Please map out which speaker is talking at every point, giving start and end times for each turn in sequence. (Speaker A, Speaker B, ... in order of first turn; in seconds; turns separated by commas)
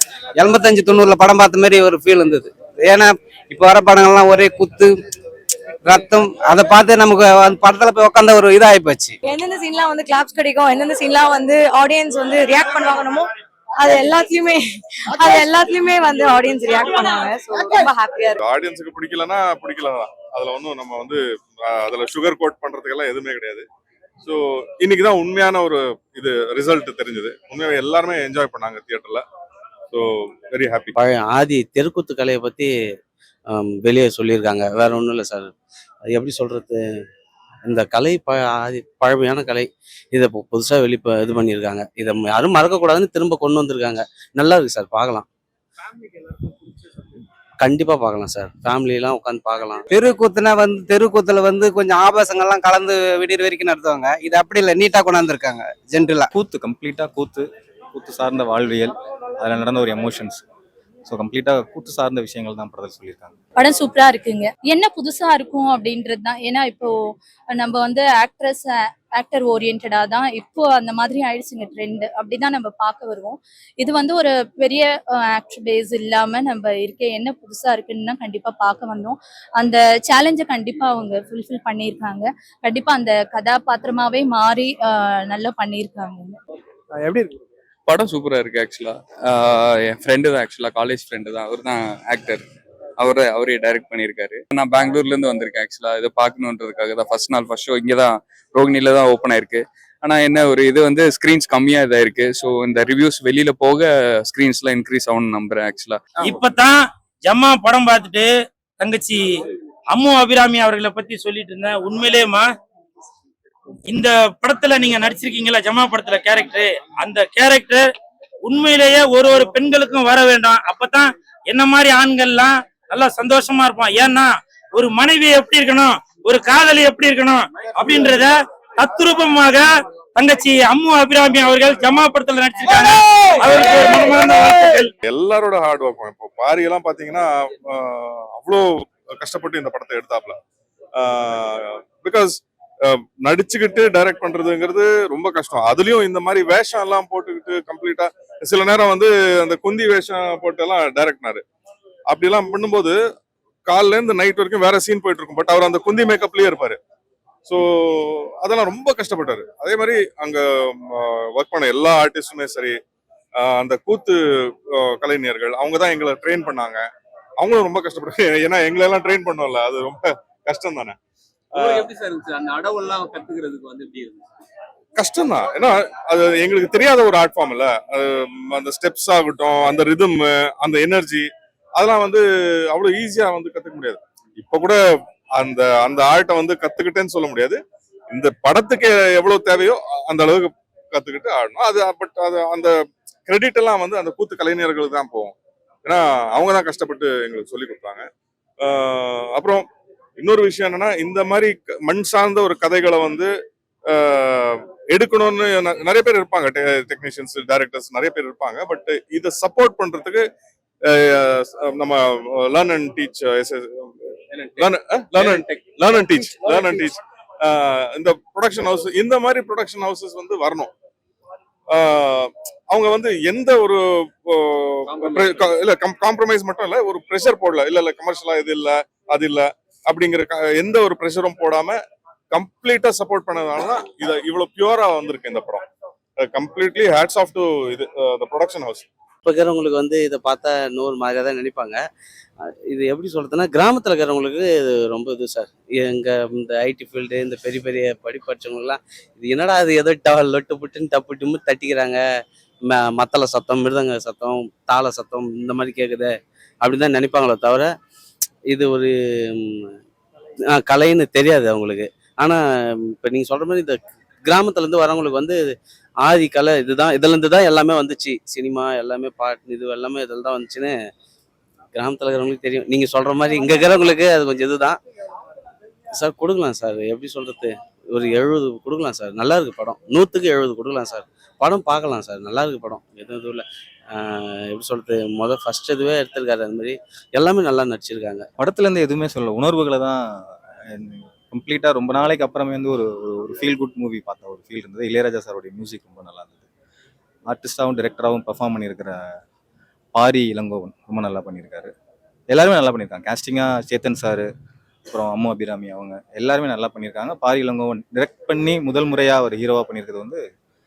Speaker A: 0.4-4.9, Speaker A: 5.8-9.2, Speaker B: 9.2-18.4, Speaker C: 18.4-23.6, Speaker C: 24.2-29.2, Speaker C: 29.9-30.9, Speaker D: 30.9-32.7, Speaker D: 33.5-35.5, Speaker D: 36.1-36.8, Speaker D: 37.6-45.2, Speaker D: 47.6-49.9, Speaker A: 49.9-56.3, Speaker E: 56.3-60.4, Speaker E: 61.0-63.3, Speaker F: 63.6-86.4, Speaker G: 87.9-92.4, Speaker G: 93.0-106.0, Speaker H: 106.2-106.7, Speaker H: 107.2-108.3, Speaker H: 108.8-109.2, Speaker H: 109.9-112.4, Speaker H: 113.9-117.8, Speaker H: 118.4-134.9, Speaker C: 135.0-140.3, Speaker C: 140.9-151.4, Speaker C: 152.1-152.9, Speaker C: 153.7-156.8, Speaker C: 157.4-162.8, Speaker C: 163.3-164.2, Speaker C: 164.7-166.8, Speaker C: 167.4-170.9, Speaker C: 171.5-171.9, Speaker I: 171.5-174.2, Speaker C: 175.0-184.8, Speaker C: 185.3-187.6, Speaker C: 188.1-192.7, Speaker C: 193.3-195.3, Speaker C: 195.8-198.0, Speaker C: 198.6-199.6, Speaker C: 200.2-203.3, Speaker C: 203.9-210.2, Speaker C: 210.8-213.9, Speaker I: 214.3-216.8, Speaker C: 214.6-220.7, Speaker C: 221.7-231.8, Speaker I: 224.9-225.6, Speaker C: 232.3-235.6, Speaker C: 236.2-238.8, Speaker D: 239.2-241.8, Speaker D: 242.7-252.0, Speaker D: 252.7-257.7, Speaker D: 258.5-259.7, Speaker D: 260.5-265.4, Speaker D: 266.0-270.7, Speaker D: 271.7-274.8, Speaker D: 275.9-283.4, Speaker D: 283.9-288.2, Speaker E: 288.4-296.4, Speaker E: 297.3-299.1, Speaker E: 299.9-301.7, Speaker E: 302.3-304.3, Speaker E: 304.9-310.2